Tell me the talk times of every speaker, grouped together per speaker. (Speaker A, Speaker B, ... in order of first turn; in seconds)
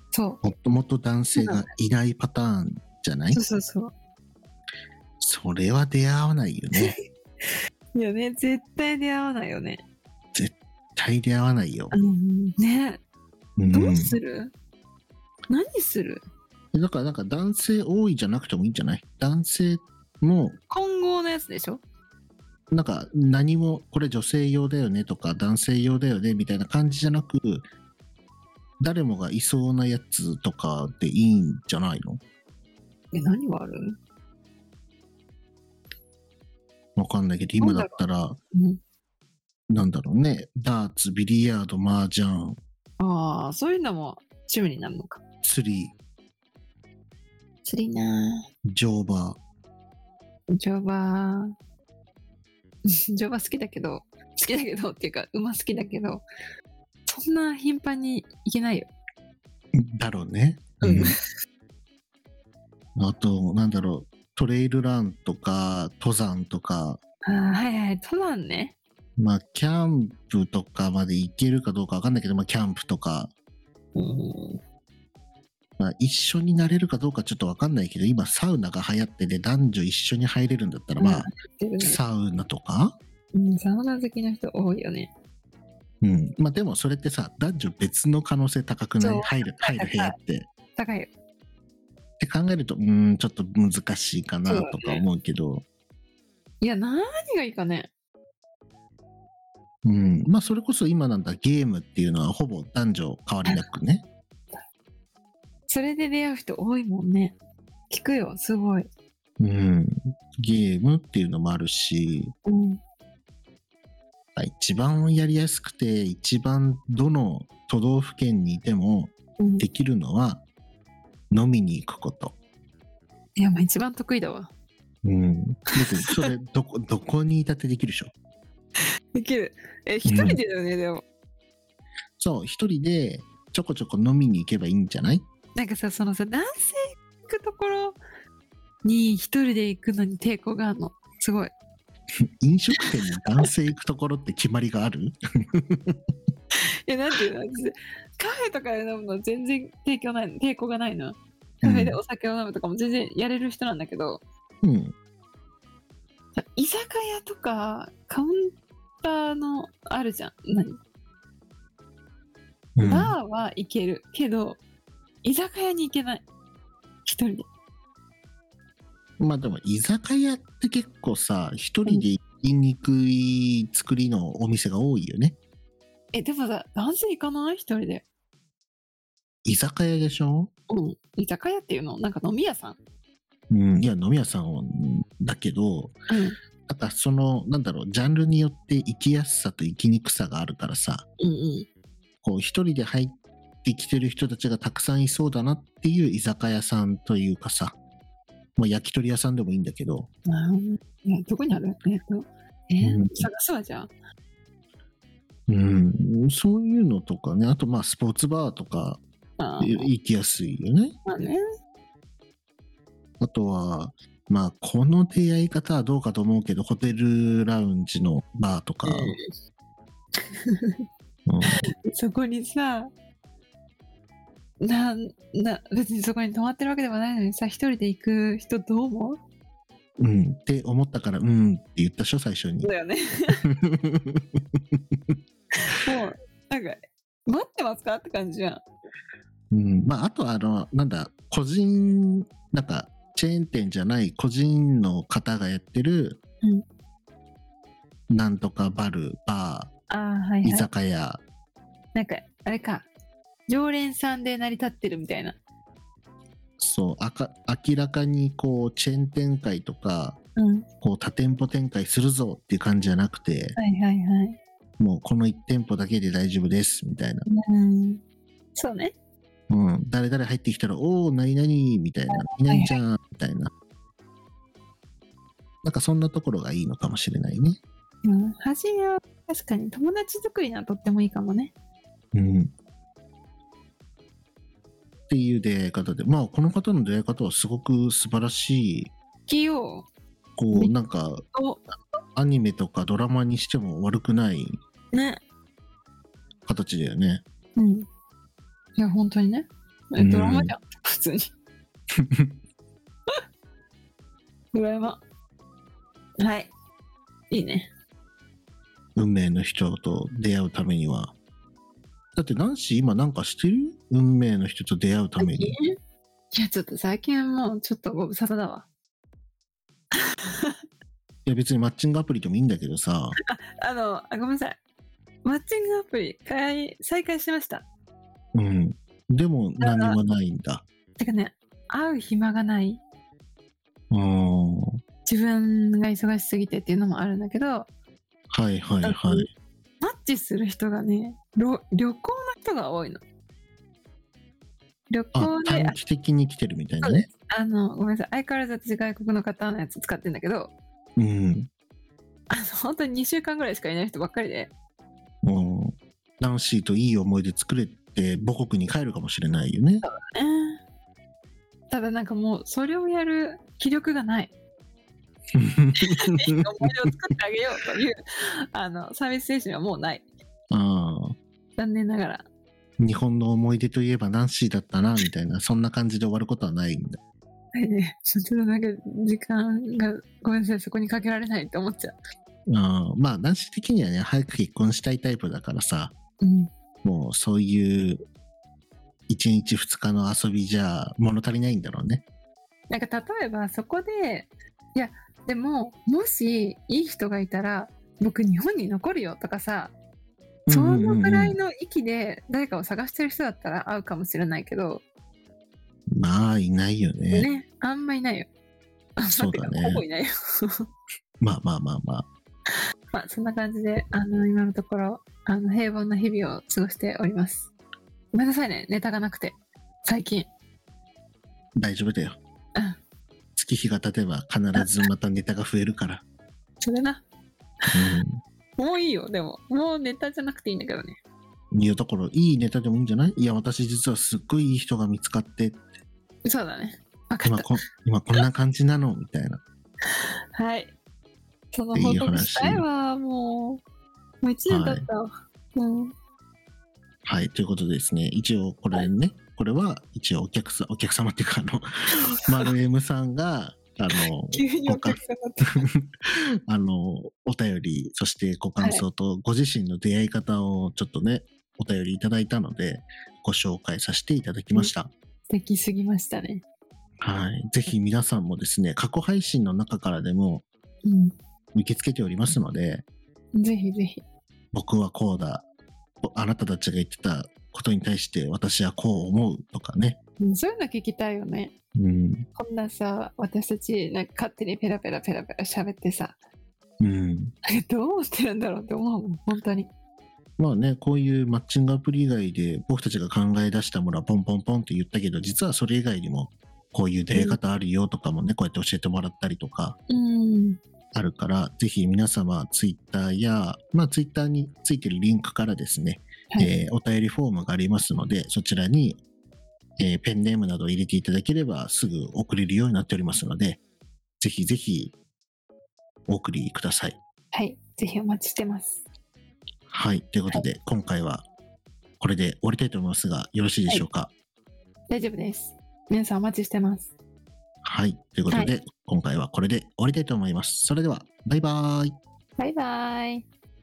Speaker A: 0.1-0.4, 1.4-1.6, 3.3-3.9, 7.9-9.8, 11.9-13.0, 13.7-14.5, 15.5-16.2, 20.7-21.8, 33.1-34.0, 37.6-38.0, 38.5-38.8, 43.0-45.2, 47.6-48.5, 50.5-51.5, 53.1-56.2, 57.1-58.9, 60.8-61.2, 67.2-68.7, 73.9-74.6, 81.0-82.0, 83.3-85.1, 89.0-90.1, 90.7-91.1, 94.5-95.0, 96.6-97.9, 105.7-107.4, 107.9-108.9, 112.5-112.8, 119.4-119.6, 123.3-124.5, 129.1-131.0, 135.6-138.0, 138.8-141.5, 146.9-154.2, 156.3-160.8, 162.8-164.6, 165.2-166.2, 167.0-167.5, 176.1-178.0, 180.7-182.8, 186.1-186.3, 191.2-191.7, 200.3-203.9, 209.4-209.9, 211.1-211.4, 218.8-219.3, 220.4-220.8, 221.9-222.9, 224.6-229.2, 232.6-233.5, 235.6-238.6, 249.9-250.7, 251.9-252.9, 253.5-255.4, 260.4-260.7, 263.6-264.4, 267.3-268.0, 268.5-268.9, 272.1-272.8, 278.0-281.5, 289.3-289.9, 291.3-291.6, 294.9-295.2, 297.6-297.9, 298.8-301.3, 304.5-305.0, 306.2-306.5, 307.3-307.7, 315.2-315.8, 316.3-318.7, 320.2-320.6, 323.3-324.6, 325.2-327.6, 329.6-330.0, 331.0-332.8, 335.0-337.7, 338.8-339.3, 339.8-343.0, 344.9-345.8, 346.8-350.5, 352.3-354.5, 359.8-360.6, 361.7-364.3, 365.8-368.0, 368.5-370.1, 371.6-372.3, 377.5-382.0, 386.2-386.5, 392.7-399.7, 400.5-404.8, 407.1-408.3, 409.0-410.6, 412.9-417.5, 418.1-420.3, 426.6-427.0, 428.6-431.0, 436.2-437.5, 440.3-440.7, 441.5-443.6, 444.2-445.9, 454.3-455.7, 465.3-466.4, 470.8-471.1, 473.3-474.0, 480.2-481.5, 482.3-486.2, 487.4-489.7, 499.9-500.6, 517.3-518.8, 524.9-526.9, 528.3-528.5, 532.4-533.2
Speaker B: 0.4-3.4, 5.2-7.0, 10.3-11.9, 13.6-14.2, 16.7-20.6, 22.7-27.6, 28.8-32.2, 37.0-38.4, 39.7-42.6, 45.4-46.0, 48.7-49.4, 59.8-61.2, 63.0-67.0, 69.2-73.3, 75.8-83.0, 86.0-90.5, 92.2-95.6, 99.8-104.0, 109.4-112.3, 114.3-120.4, 121.3-122.3, 125.0-128.1, 130.0-130.4, 132.2-135.2, 142.4-145.9, 151.6-152.0, 154.6-154.9, 162.8-163.1, 169.2-175.4, 179.4-180.5, 183.5-185.9, 186.7-191.1, 192.2-197.7, 198.6-200.1, 202.8-203.3, 205.5-209.0, 209.6-210.9, 213.2-219.2, 221.3-221.6, 230.0-232.7, 233.4-235.2, 239.5-246.2, 248.1-249.7, 250.4-251.2, 256.6-260.2, 260.8-263.6, 264.8-267.2, 269.5-273.5, 275.6-277.6, 282.1-282.5, 285.1-288.9, 290.4-291.2, 292.1-294.6, 296.4-297.2, 300.0-300.5, 308.9-311.1, 312.1-315.6, 321.2-323.1, 328.3-330.6, 333.9-334.8, 338.3-339.3, 345.1-347.1, 351.0-351.5, 355.2-359.9, 365.3-366.4, 370.5-371.1, 372.8-377.0, 382.5-385.9, 386.8-388.0, 389.1-392.0, 400.5-401.4, 405.9-407.3, 409.1-409.8, 411.2-412.1, 421.6-422.2, 423.4-426.0, 427.7-428.2, 431.5-435.6, 437.2-439.4, 441.7-442.6, 444.5-444.9, 447.1-451.7, 452.2-464.9, 467.0-470.4, 471.5-472.8, 474.5-475.4, 476.0-480.0, 481.8-482.3, 486.8-487.3, 490.4-499.8, 500.9-509.0, 509.8-513.6, 514.2-514.9, 516.1-517.0, 519.7-521.2, 522.0-524.1, 527.6-532.0